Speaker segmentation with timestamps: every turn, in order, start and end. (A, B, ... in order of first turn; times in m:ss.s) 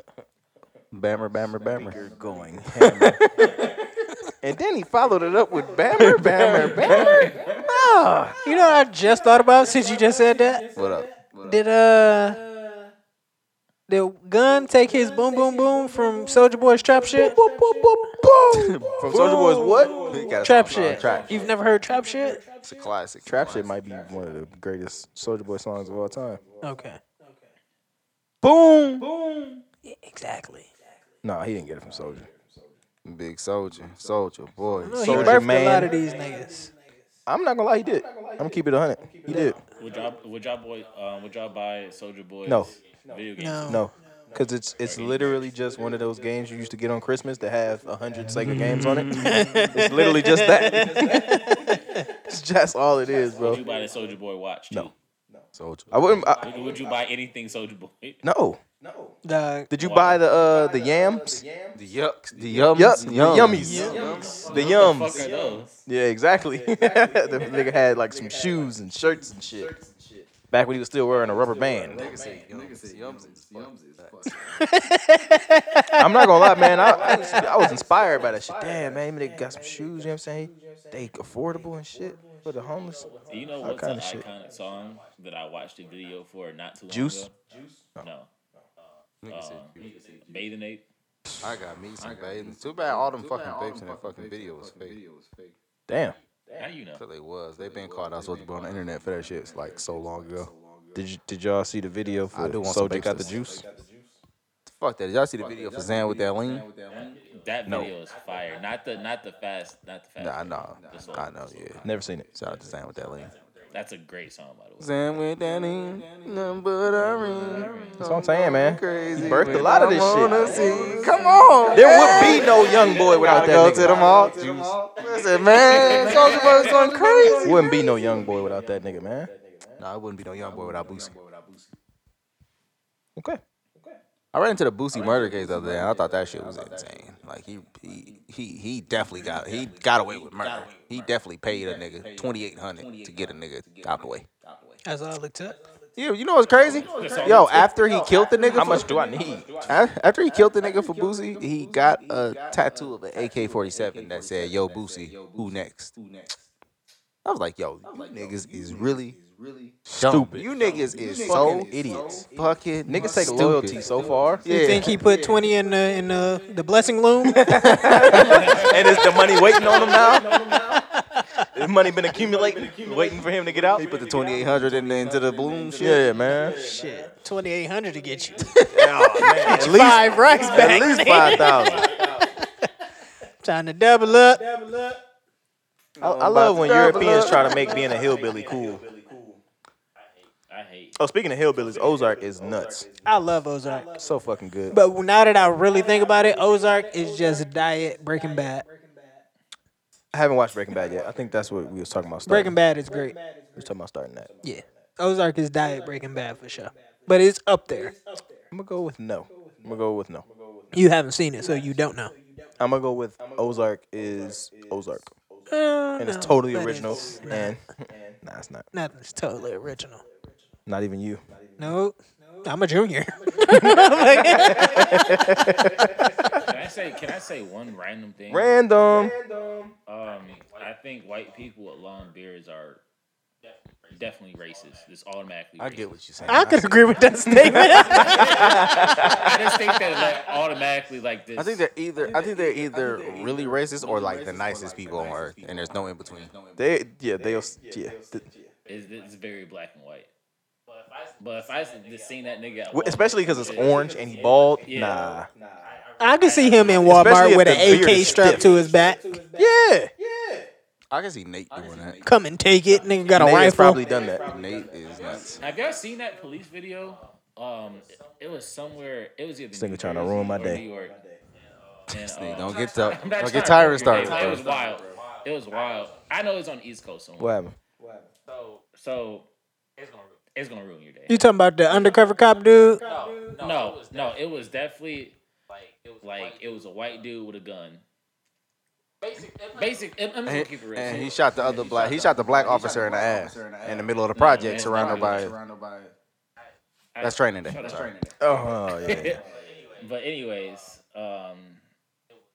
0:00.9-0:02.0 A
0:01.7-0:03.5 B
0:02.8-0:03.2 A
0:04.4-0:08.4 B
0:06.9-0:07.3 C
0:08.4-0:10.6 D
0:10.8-0:11.2 A
0:11.4-0:12.4 D
0:13.9-0:17.4 D
0:17.1-0:21.2 B
0:18.5-0:21.5 A
0:19.1-0:19.8 D
0:20.4-0:22.4 D
0:22.6-0:23.6 A
0:23.2-0:26.4 B
0:26.6-0:27.0 D
0:28.4-0:29.0 A
0:29.8-0:30.7 D
0:31.2-0:32.3 B
0:33.0-0:35.4 A
0:34.8-0:36.7 D
0:34.9-0:35.9 B
0:37.3-0:39.6 B
0:39.8-0:43.7 C
0:43.4-0:43.8 D
0:43.7-0:51.6 B
0:44.8-0:45.4 C
0:48.4-0:49.7 A
0:49.1-0:51.7 D
0:52.3-0:53.6 B
0:53.4-0:54.9 C
0:55.5-0:56.3 A
0:55.9-0:56.4 B
0:56.4-0:58.2 C
0:58.2-0:58.6 B
0:59.2-0:59.7 D
0:59.7-1:01.4 B
0:59.8-1:00.2 C
1:01.7-1:04.7 A
1:02.7-1:05.2 B
1:03.5-1:04.0 D
1:03.8-1:05.8 C
1:05.8-1:09.7 B
1:10.5-1:12.0 B
1:11.9-1:14.3 A
1:14.5-1:17.2 D
1:15.9-1:23.1 B
1:23.3-1:27.3 C
1:23.6-1:24.2 B
1:26.9-1:27.3 B
1:28.0-1:28.3 C
1:29.2-1:29.8 A
1:29.3-1:30.8 C
1:31.4-1:35.0 A
1:35.9-1:36.2 B
1:36.6-1:37.0 C
1:37.0-1:40.5 A
1:40.9-1:43.6 B
1:42.3-1:43.3 A
1:44.6-1:46.7 A
1:46.9-1:51.8 C
1:47.6-1:47.9 B
1:50.2-1:51.8 A
1:51.8-1:52.2 B
1:52.3-1:53.3 A
1:53.7-1:55.1 C
1:54.8-2:02.6 A
1:57.2-1:58.2 C
1:58.0-2:00.8 B
2:00.9-2:01.5 C
2:01.7-2:04.1 B
2:03.1-2:07.7 A
2:06.2-2:06.5 C
2:06.9-2:09.3 B
2:09.8-2:11.2 A
2:14.3-2:24.3 A
2:24.8-2:25.6 D
2:26.0-2:28.9 A
2:26.9-2:27.7 C
2:28.5-2:29.6 B
2:29.6-2:35.9 A
2:37.2-2:39.2 A
2:39.8-2:41.7 A
2:39.9-2:40.5 B
2:41.2-2:42.2 B
2:42.2-2:43.8 A
2:42.8-2:44.5 B
2:44.4-2:45.0 A
2:44.4-2:48.3 D
2:47.4-2:50.3 B
2:48.3-2:48.7 C
2:49.6-2:50.0 D
2:50.7-2:51.2 D
2:51.5-2:53.9 B
2:53.8-2:56.1 A
2:55.8-2:56.6 B
2:56.3-2:58.5 D
2:58.7-3:01.9 B
2:59.3-3:01.9 D
3:03.4-3:04.5 D
3:06.0-3:07.8 A
3:06.0-3:08.8 B
3:10.5-3:11.0 C
3:11.0-3:12.9 B
3:13.0-3:13.9 D
3:14.0-3:14.7 B
3:14.7-3:18.6 D
3:20.1-3:22.5 B
3:22.2-3:23.2 D
3:23.6-3:24.3 B
3:24.4-3:27.9 D
3:28.5-3:30.2 B
3:30.7-3:32.1 D
3:32.6-3:35.1 B
3:35.5-3:37.5 D
3:36.0-3:37.6 B
3:38.2-3:38.6 B
3:38.7-3:40.0 D
3:40.7-3:41.2 B
3:41.6-3:45.2 D
3:43.5-3:45.7 B
3:46.4-3:48.5 C
3:48.3-3:49.2 B
3:49.9-3:52.8 C
3:53.9-3:55.9 C
3:55.6-3:56.8 A
3:56.3-3:58.5 D
3:57.2-3:59.4 B
3:58.1-4:01.6 C
4:01.4-4:06.3 A
4:06.6-4:08.3 B
4:08.6-4:10.1 C
4:11.2-4:13.8 C
4:12.7-4:15.3 B
4:14.6-4:15.1 C
4:16.0-4:19.1 D
4:16.5-4:17.4 C
4:16.8-4:18.5 B
4:19.4-4:19.9 B
4:20.9-4:22.0 A
4:22.0-4:23.8 D
4:23.1-4:24.2 B
4:24.3-4:25.4 A
4:25.4-4:31.0 C
4:29.5-4:30.6 B
4:31.9-4:37.4 C
4:31.9-4:34.4 A
4:37.2-4:37.6 B
4:38.7-4:39.3 C
4:40.3-4:41.2 C
4:41.1-4:42.8 D
4:43.3-4:45.2 C
4:46.0-4:47.8 C
4:49.2-4:51.3 C
4:50.2-4:55.4 A
4:54.2-4:55.3 C
4:57.0-5:01.6 C
4:57.0-4:57.9 A
4:58.2-4:59.2 B